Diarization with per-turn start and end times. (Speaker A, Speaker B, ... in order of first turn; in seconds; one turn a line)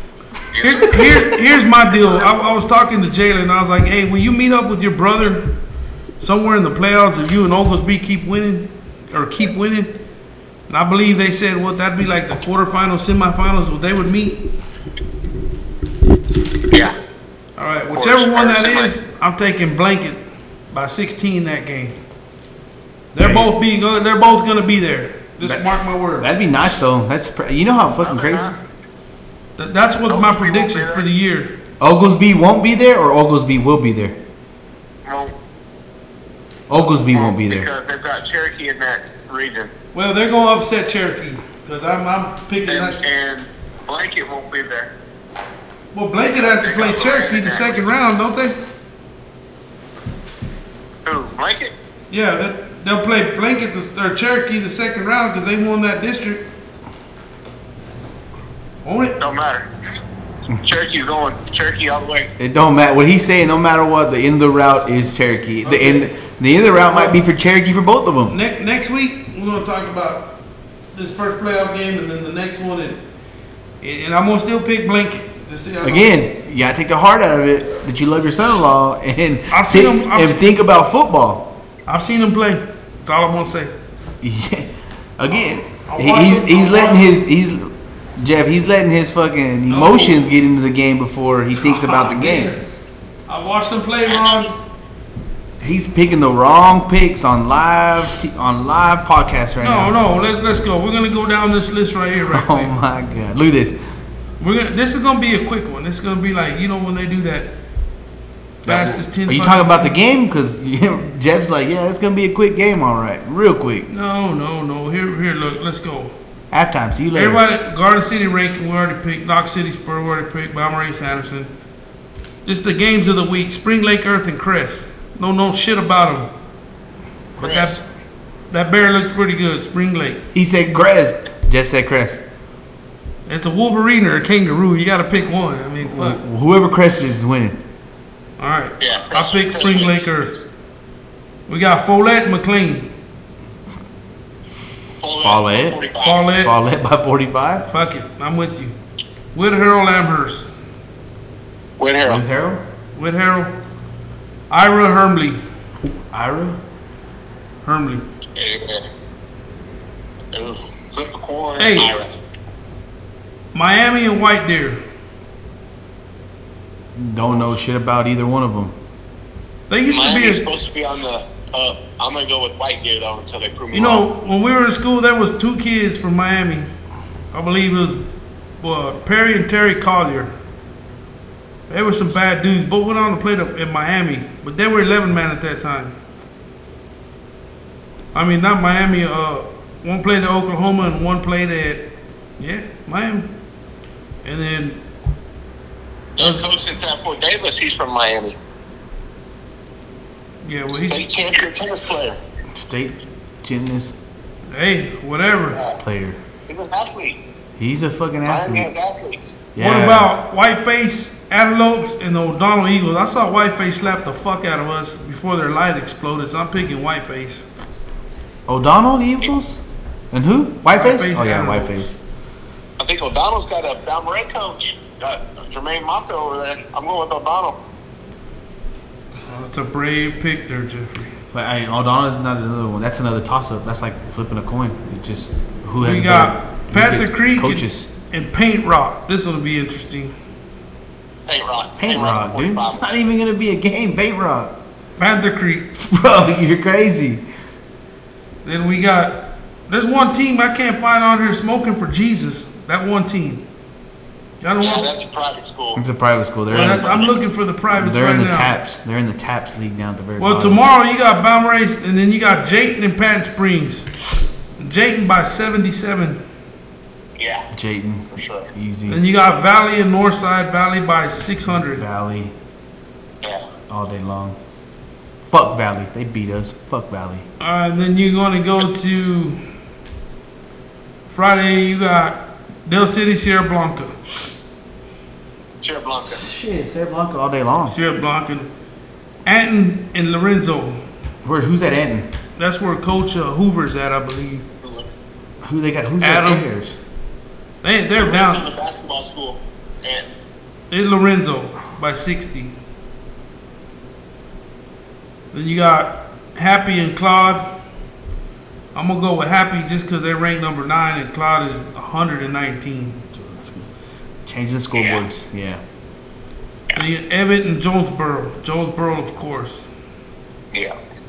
Speaker A: 0.5-1.3
Speaker B: 0.6-5.6
Speaker B: 6.2-10.0
Speaker B: 10.7-14.4
Speaker B: 17.6-20.2
Speaker A: 17.9-18.9
Speaker B: 20.7-22.0
Speaker B: 23.1-26.3
Speaker C: 23.2-23.5
Speaker C: 26.2-28.5
Speaker A: 28.0-28.6
Speaker B: 29.6-31.6
Speaker A: 30.1-31.1
Speaker C: 31.8-34.2
Speaker A: 35.1-35.4
Speaker C: 36.7-37.7
Speaker A: 37.1-39.7
Speaker B: 39.9-43.0
Speaker A: 42.7-44.9
Speaker B: 45.9-48.6
Speaker A: 46.3-47.8
Speaker A: 51.0-51.7
Speaker B: 52.1-56.5
Speaker B: 58.9-59.2
Speaker A: 59.2-59.7
Speaker A: 60.6-62.3
Speaker C: 62.4-68.3
Speaker B: 65.6-66.1
Speaker B: 66.8-67.2
Speaker B: 68.3-70.4
Speaker B: 71.0-73.0
Speaker B: 73.8-76.2
Speaker C: 75.8-81.5
Speaker B: 79.5-80.5
Speaker B: 81.9-83.7
Speaker C: 84.2-92.5
Speaker B: 85.8-87.1
Speaker B: 89.7-90.3
Speaker B: 91.6-92.6
Speaker B: 93.3-94.5
Speaker A: 94.1-94.5
Speaker C: 95.6-100.0
Speaker B: 99.6-102.7
Speaker C: 102.3-103.8
Speaker B: 104.4-107.5
Speaker B: 108.6-109.9
Speaker C: 108.7-113.9
Speaker B: 113.9-116.1
Speaker C: 116.5-117.4
Speaker B: 117.1-121.5
Speaker B: 122.5-126.3
Speaker B: 127.4-127.8
Speaker A: 127.4-127.8
Speaker B: 128.5-130.2
Speaker C: 130.3-132.2
Speaker B: 133.3-136.2
Speaker C: 135.8-137.6
Speaker B: 138.4-140.4
Speaker A: 138.8-140.4
Speaker B: 141.5-142.9
Speaker A: 145.0-146.4
Speaker C: 145.2-145.8
Speaker B: 146.0-146.6
Speaker C: 146.3-147.7
Speaker B: 147.7-148.8
Speaker B: 149.3-150.5
Speaker A: 151.8-152.2
Speaker C: 152.0-152.6
Speaker B: 153.0-153.6
Speaker B: 154.5-155.4
Speaker C: 156.1-156.6
Speaker B: 157.7-158.0
Speaker A: 158.4-158.9
Speaker A: 160.3-162.2
Speaker B: 161.6-161.9
Speaker B: 163.5-164.8
Speaker C: 167.0-168.8
Speaker B: 169.7-170.4
Speaker A: 169.9-174.1
Speaker B: 173.7-176.7
Speaker B: 177.3-178.0
Speaker B: 178.6-180.3
Speaker B: 181.7-186.0
Speaker B: 188.2-193.3
Speaker B: 194.2-194.8
Speaker A: 196.2-198.4
Speaker B: 196.2-196.5
Speaker B: 200.4-201.0
Speaker A: 200.7-202.2
Speaker C: 202.5-204.0
Speaker B: 204.5-205.6
Speaker A: 205.5-205.8
Speaker C: 205.8-206.2
Speaker A: 206.5-207.2
Speaker C: 207.6-208.7
Speaker A: 208.2-209.4
Speaker C: 209.6-210.1
Speaker B: 209.6-217.5
Speaker C: 218.5-219.6
Speaker C: 220.1-221.9
Speaker B: 220.7-222.0
Speaker A: 222.8-227.6
Speaker B: 229.3-231.2
Speaker C: 231.3-237.9
Speaker B: 235.8-240.2
Speaker A: 241.3-242.8
Speaker C: 241.8-244.6
Speaker B: 245.0-245.7
Speaker C: 245.8-247.2
Speaker B: 248.4-253.4
Speaker B: 254.4-254.9
Speaker A: 254.6-255.8
Speaker C: 255.8-257.1
Speaker B: 256.5-258.5
Speaker A: 256.6-257.1
Speaker C: 257.7-260.6
Speaker B: 260.2-263.9
Speaker B: 264.6-266.2
Speaker A: 267.2-267.5
Speaker C: 267.5-269.1
Speaker A: 268.1-268.5
Speaker B: 268.9-271.9
Speaker C: 271.8-272.3
Speaker A: 273.2-273.5
Speaker C: 273.7-274.4
Speaker C: 275.3-277.3
Speaker B: 277.4-279.4
Speaker B: 281.1-284.1
Speaker A: 285.6-286.2
Speaker C: 286.1-287.8
Speaker B: 287.7-288.5
Speaker B: 289.3-290.8
Speaker C: 291.2-292.1
Speaker B: 292.4-294.4
Speaker A: 294.6-294.9
Speaker C: 295.4-296.8
Speaker B: 296.0-296.5
Speaker B: 297.6-298.5
Speaker A: 298.0-300.1
Speaker B: 300.7-302.6
Speaker B: 305.3-307.5
Speaker B: 308.8-313.1
Speaker C: 313.1-313.7
Speaker C: 314.2-315.6
Speaker A: 314.8-315.0
Speaker B: 316.8-319.7